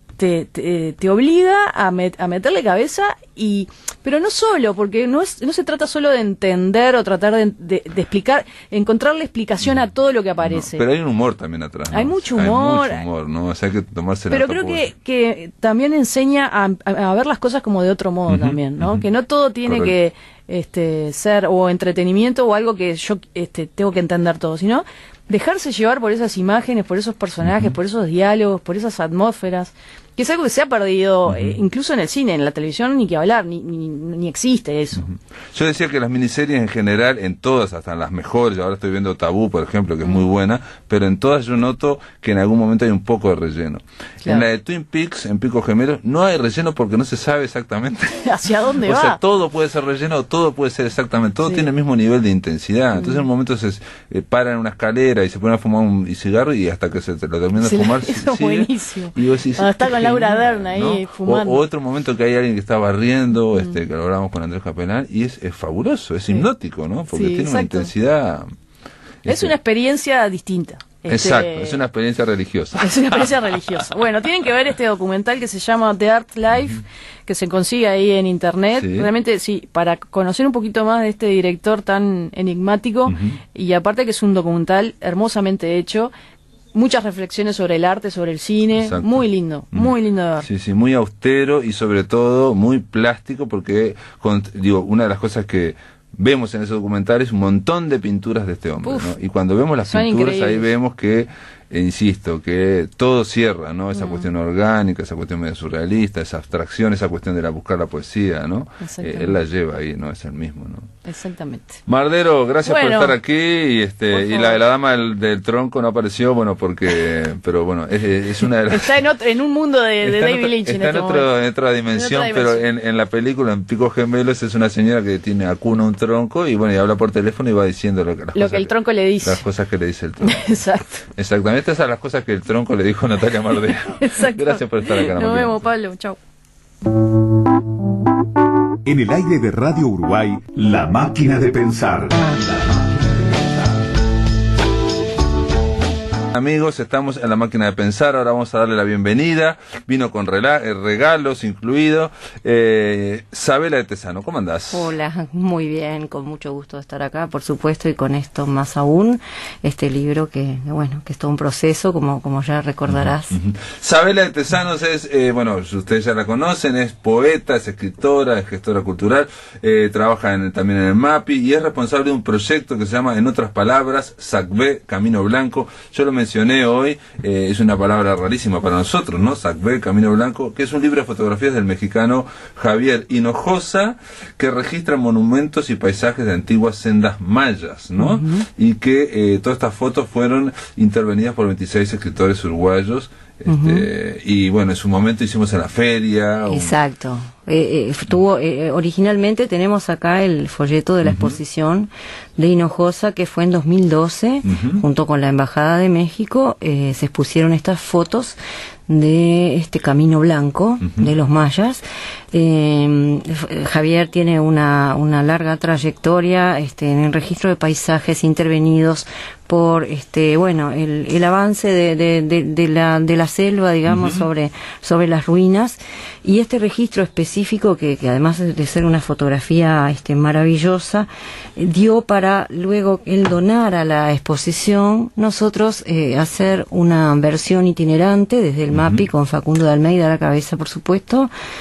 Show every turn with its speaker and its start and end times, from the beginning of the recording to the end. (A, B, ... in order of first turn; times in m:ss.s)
0:00.2-0:10.8 A
0:10.4-0:14.9 B
0:11.9-0:13.0 A
0:14.3-0:35.1 A
0:18.3-0:19.0 B
0:19.6-0:19.9 B
0:27.4-0:27.8 B
0:31.3-0:31.6 B
0:35.0-0:48.3 B
0:48.2-0:49.2 A
0:48.8-1:08.5 B
0:51.4-0:51.7 A
0:52.9-0:53.2 A
0:57.6-1:01.6 A
1:07.1-1:07.9 A
1:09.2-1:09.5 B
1:09.2-1:11.8 A
1:11.1-1:13.9 B
1:12.8-1:26.1 A
1:18.8-1:19.1 B
1:23.1-1:23.4 B
1:26.7-1:30.5 A
1:28.8-1:29.2 B
1:29.7-1:50.9 B
1:38.8-1:39.1 A
1:39.9-1:40.7 A
1:43.9-1:44.3 A
1:48.8-1:49.3 A
1:51.0-1:51.8 A
1:51.9-1:58.9 B
1:52.6-1:53.1 A
1:54.1-1:54.6 A
1:58.7-2:01.3 A
2:00.0-2:10.4 B
2:01.9-2:02.6 A
2:08.3-2:09.4 A
2:10.2-2:11.0 A
2:11.2-2:15.6 B
2:14.0-2:16.2 A
2:18.8-2:22.4 C
2:26.3-2:34.9 B
2:34.7-2:43.3 D
2:42.9-3:16.7 B
3:08.0-3:08.4 D
3:13.5-3:13.9 D
3:16.5-4:01.3 D
3:21.0-3:21.4 B
3:24.4-3:24.8 B
3:43.9-3:44.2 B
3:58.7-3:59.0 B